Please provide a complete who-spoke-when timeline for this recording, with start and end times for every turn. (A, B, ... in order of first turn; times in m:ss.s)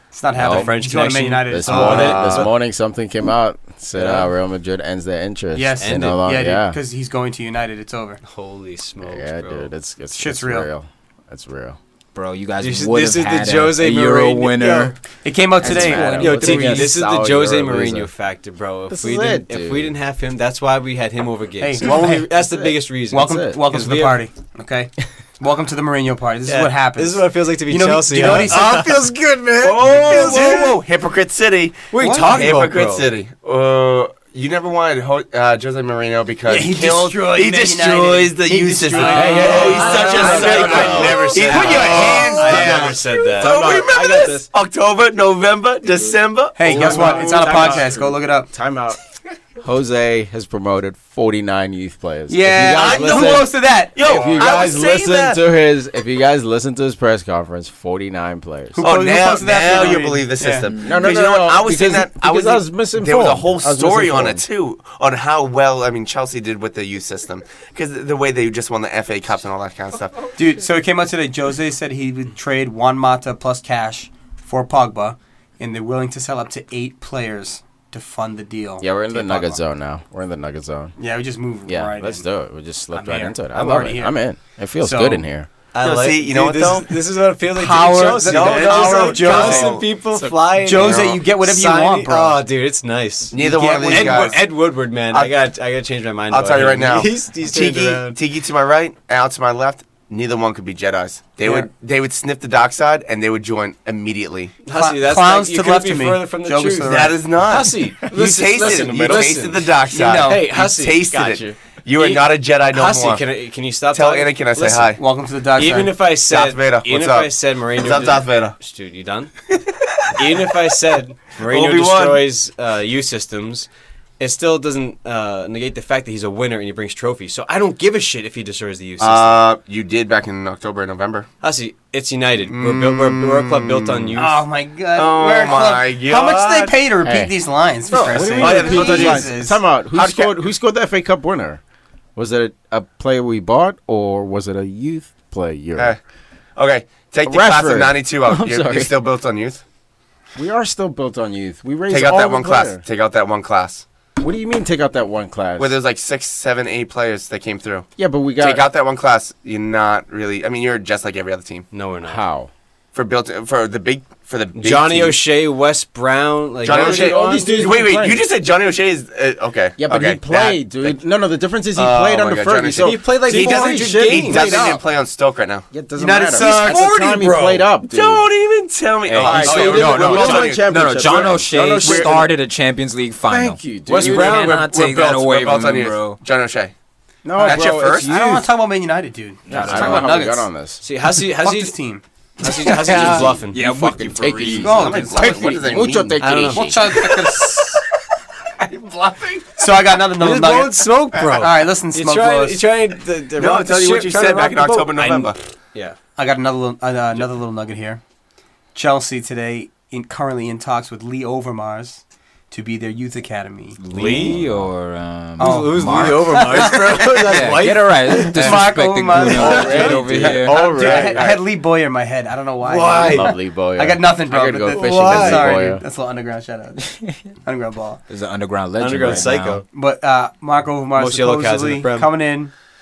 0:00.1-0:02.4 A
0:00.3-0:02.5 B
0:00.3-0:00.8 C
0:01.5-0:06.8 C
0:01.7-0:02.5 D
0:04.0-0:04.3 B
0:05.5-0:08.2 A
0:05.8-0:06.2 B
0:08.2-0:09.7 B
0:09.0-0:11.8 C
0:10.1-0:10.7 A
0:12.1-0:15.0 E
0:12.6-0:14.9 B
0:15.2-0:16.8 A
0:15.6-0:18.1 C
0:15.6-0:24.2 B
0:16.4-0:16.9 E
0:18.9-0:19.9 C
0:21.6-0:22.5 A
0:21.8-0:23.6 C
0:23.1-0:28.9 A
0:26.4-0:30.8 B
0:28.4-0:28.7 C
0:29.6-0:47.7 D
0:30.1-0:30.6 C
0:31.9-0:33.1 B
0:32.0-0:32.5 A
0:36.5-0:43.2 A
0:38.9-0:43.9 B
0:38.9-0:42.8 C
0:43.4-0:44.5 C
0:46.6-0:48.5 A
0:46.6-0:49.0 C
0:49.6-0:58.8 C
0:52.3-0:54.6 A
0:52.8-0:55.4 D
0:58.7-1:00.7 A
0:58.8-1:10.3 D
0:59.7-1:00.0 C
1:00.8-1:04.4 C
1:10.4-1:19.6 A
1:18.8-1:20.9 C
1:21.0-1:22.2 A
1:21.6-1:25.5 C
1:22.9-1:24.2 A
1:24.8-1:25.2 A
1:25.7-1:33.4 B
1:25.8-1:26.9 D
1:27.5-1:29.8 A
1:28.2-1:29.9 D
1:30.6-1:32.4 A
1:33.3-1:34.5 D
1:33.3-1:34.4 A
1:33.9-1:38.2 B
1:36.3-1:44.6 D
1:41.4-1:41.7 A
1:44.6-1:55.0 B
1:44.7-1:47.4 A
1:46.8-1:53.2 D
1:48.5-1:49.4 C
1:49.9-1:50.4 A
1:53.9-1:55.0 D
1:55.0-1:56.0 A
1:55.5-1:59.4 B
1:56.1-1:58.5 D
1:59.6-2:00.2 D
2:00.1-2:03.7 B
2:01.4-2:02.2 D
2:04.2-2:09.4 B
2:09.0-2:11.3 D
2:11.4-2:14.4 B
2:12.4-2:14.2 D
2:14.2-2:19.6 A
2:14.9-2:16.8 D
2:17.0-2:17.3 C
2:17.9-2:20.4 D
2:17.9-2:21.6 C
2:22.2-2:25.9 C
2:26.6-2:29.6 D
2:27.2-2:29.0 C
2:30.3-2:32.8 C
2:31.9-2:33.8 D
2:34.2-2:35.7 C
2:35.6-2:41.6 D
2:38.0-2:38.6 C
2:41.7-2:42.2 B
2:42.0-2:42.5 C
2:42.9-2:45.2 D
2:44.5-2:47.7 B
2:46.6-2:51.0 D
2:46.6-2:48.3 C
2:49.8-2:54.8 C
2:51.7-2:55.7 D
2:52.7-2:54.8 B
2:55.7-2:58.3 C
2:55.9-2:57.2 A
2:56.3-3:02.3 D
2:59.0-3:06.2 E
2:59.2-3:02.3 C
3:03.3-3:04.3 C
3:03.8-3:04.7 B
3:04.0-3:06.7 D
3:07.2-3:08.3 C
3:07.3-3:10.5 A
3:07.4-3:08.2 D
3:09.5-3:10.1 E
3:09.5-3:10.8 C
3:10.8-3:11.8 B
3:11.2-3:12.0 A
3:12.4-3:13.6 B
3:12.8-3:17.0 C
3:12.9-3:14.8 E
3:12.9-3:13.2 A
3:14.4-3:15.4 A
3:14.6-3:17.6 D
3:16.2-3:16.7 B
3:16.5-3:17.8 A
3:18.6-3:19.7 D
3:19.6-3:22.6 A
3:20.1-3:26.0 B
3:23.4-3:25.4 D
3:26.2-3:28.0 A
3:28.7-3:34.3 A
3:33.8-3:40.6 E
3:33.9-3:34.4 B
3:35.4-3:37.4 A
3:35.4-3:41.2 B
3:38.1-3:48.0 A
3:39.2-3:41.4 C
3:42.6-3:43.3 B
3:43.0-3:45.8 C
3:44.7-3:45.7 B
3:48.1-3:49.6 E
3:48.8-3:49.6 B
3:49.7-3:52.5 A
3:50.9-3:52.1 B